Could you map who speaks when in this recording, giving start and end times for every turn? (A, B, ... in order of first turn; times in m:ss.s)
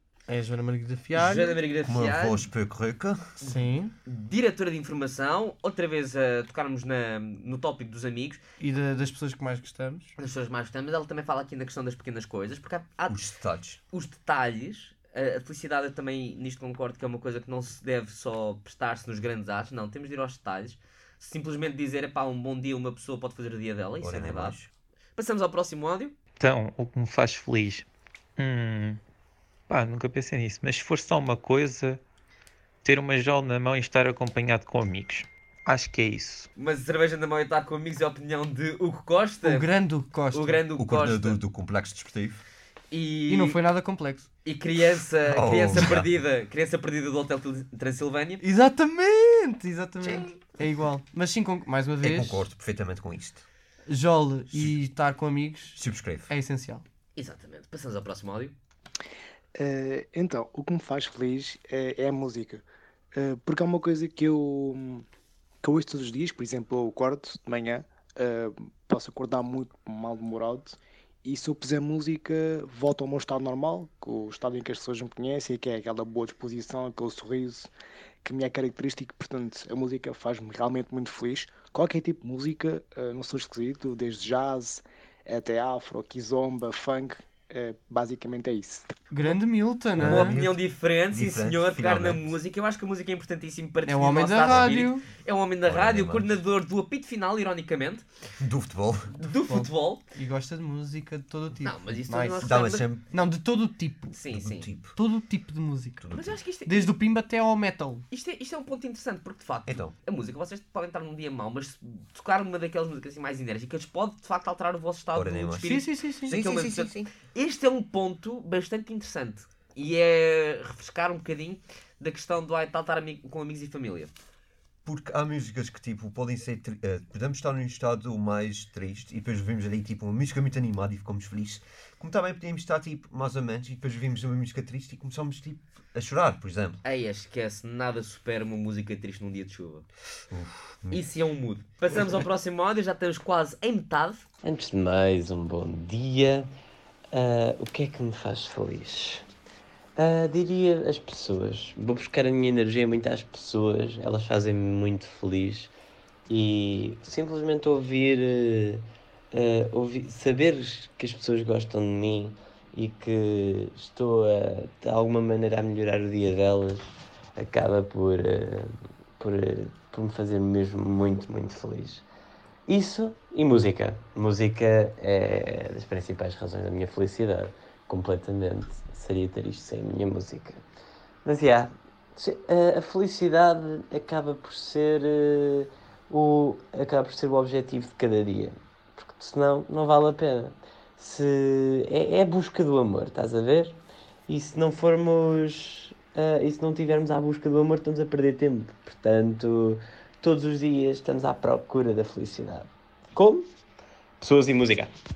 0:00.3-0:01.6 A
0:01.2-0:02.5 B
0:01.8-0:03.4 C
0:03.4-0:03.9 A
0:03.4-0:08.4 B
0:08.6-0:10.2 A
0:10.2-0:13.2 B
0:13.1-0:13.8 C
0:13.9-0:24.6 B
0:24.0-0:24.7 C
0:25.2-0:26.2 B
0:26.4-0:27.9 D
0:28.4-0:29.0 D
0:29.7-0:32.0 D
0:32.8-0:36.5 D
0:36.6-0:39.7 B
0:39.4-0:40.6 A
0:40.3-0:41.4 B
0:40.8-0:42.4 C
0:42.9-0:43.6 B
0:43.3-0:44.3 A
0:44.4-0:48.4 B
0:45.2-0:46.1 C
0:48.4-0:52.5 A
0:50.0-0:50.3 C
0:52.0-0:53.5 C
0:53.9-0:56.8 A
0:55.8-0:56.3 C
0:57.2-0:58.5 B
0:59.6-1:05.1 E
1:05.6-1:17.7 E
1:18.2-1:28.9 E
1:29.1-1:30.4 A
1:30.0-1:32.3 C
1:30.0-1:38.0 B
1:33.9-1:35.1 A
1:34.4-1:34.8 C
1:35.6-1:36.4 C
1:38.4-1:39.2 C
1:39.2-1:40.0 B
1:39.5-1:44.1 A
1:41.6-1:42.9 B
1:42.4-1:43.0 C
1:44.1-1:44.7 B
1:44.3-1:45.0 C
1:45.0-1:46.0 A
1:46.0-1:46.4 C
1:46.1-1:46.9 B
1:46.7-1:48.0 A
1:48.1-2:04.1 B
1:49.7-1:49.9 C
1:55.2-1:57.1 C
1:55.6-1:56.3 A
2:04.8-2:16.8 C
2:16.8-2:19.9 B
2:20.3-2:21.0 C
2:20.9-2:24.2 B
2:24.4-2:26.5 F
2:27.1-2:29.2 F
2:30.0-2:35.7 F
2:36.3-2:52.0 F
2:52.7-3:00.6 F
3:01.2-3:23.5 F
3:24.2-3:24.9 F